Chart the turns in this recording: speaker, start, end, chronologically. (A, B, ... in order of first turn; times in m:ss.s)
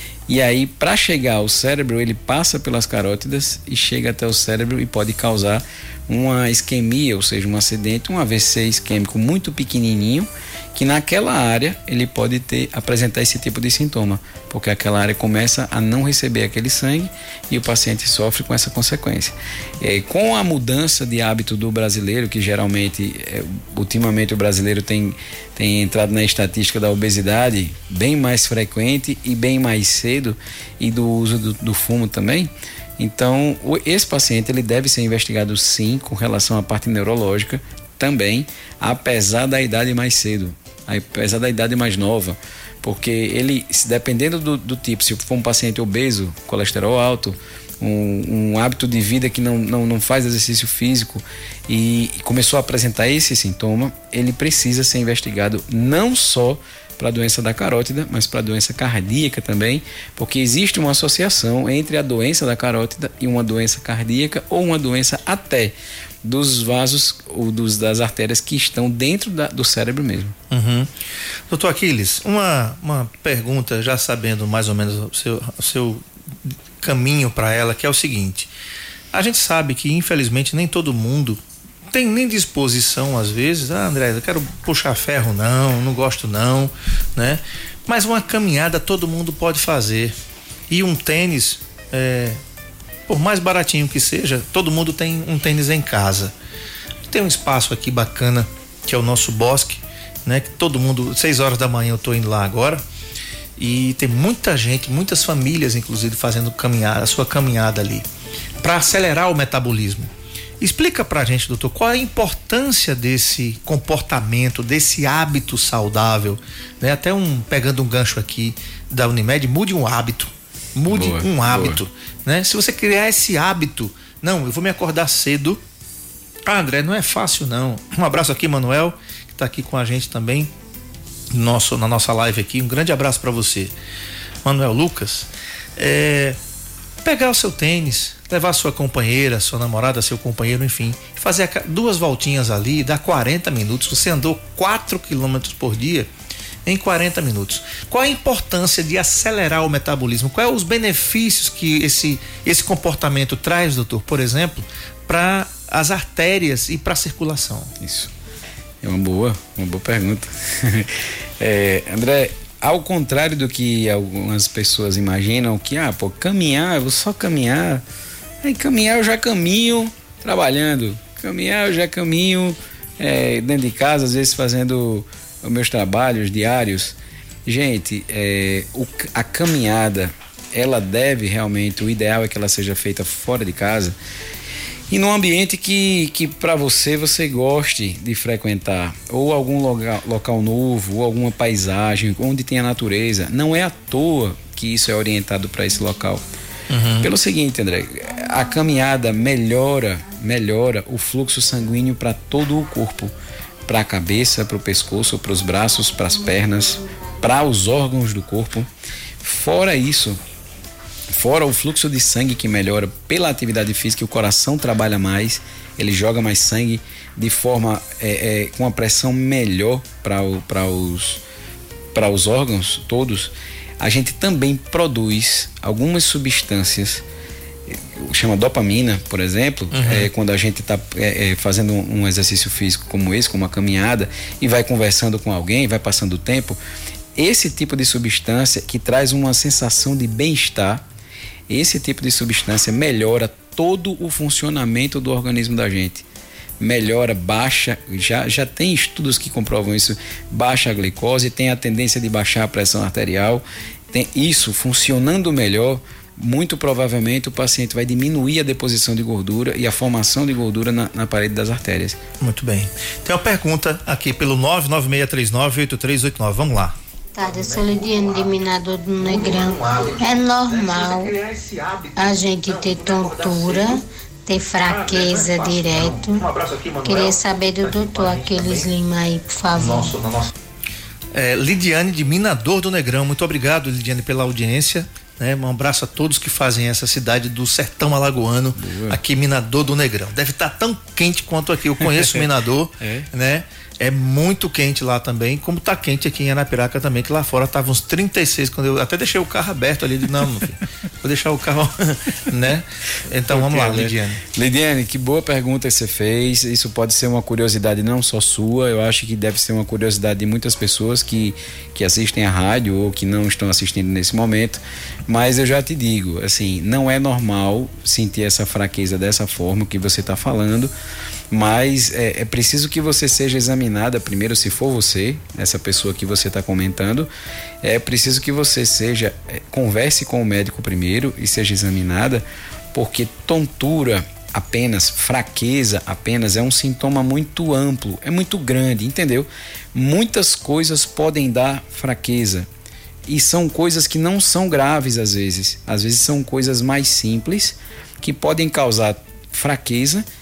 0:00.3-1:10.4 A
1:10.5-1:10.9 B
1:11.5-1:18.5 B
1:19.1-1:30.2 B
1:30.7-1:32.4 B
1:33.1-1:36.3 B
1:37.1-1:42.8 B
1:43.6-1:48.1 B
1:48.6-2:05.6 B
2:00.9-2:01.8 A
2:06.5-2:10.5 B
2:11.3-2:13.7 B
2:14.4-2:16.4 B
2:17.0-2:26.1 B
2:26.7-2:37.7 B
2:37.8-2:38.1 A
2:38.8-2:47.8 A
2:48.4-3:04.0 A
3:04.9-3:16.2 A
3:16.7-3:17.1 B
3:17.0-3:23.1 A
3:23.7-3:28.7 A
3:29.2-3:30.2 A
3:31.1-3:41.2 A
3:41.9-3:47.0 A
3:47.7-3:56.6 A
3:49.7-3:50.1 B
3:57.2-4:00.8 A
4:01.5-4:06.0 A
4:06.6-4:22.0 A
4:22.2-4:33.8 B
4:27.2-4:31.1 C
4:32.0-4:36.2 C
4:34.6-4:38.7 B
4:36.8-4:40.0 C
4:39.5-4:40.3 B
4:41.1-5:04.2 B
4:48.6-4:49.0 A
4:52.8-4:53.1 A
5:03.3-5:20.7 A
5:21.3-5:27.1 A
5:27.6-5:42.5 A
5:43.1-5:50.0 A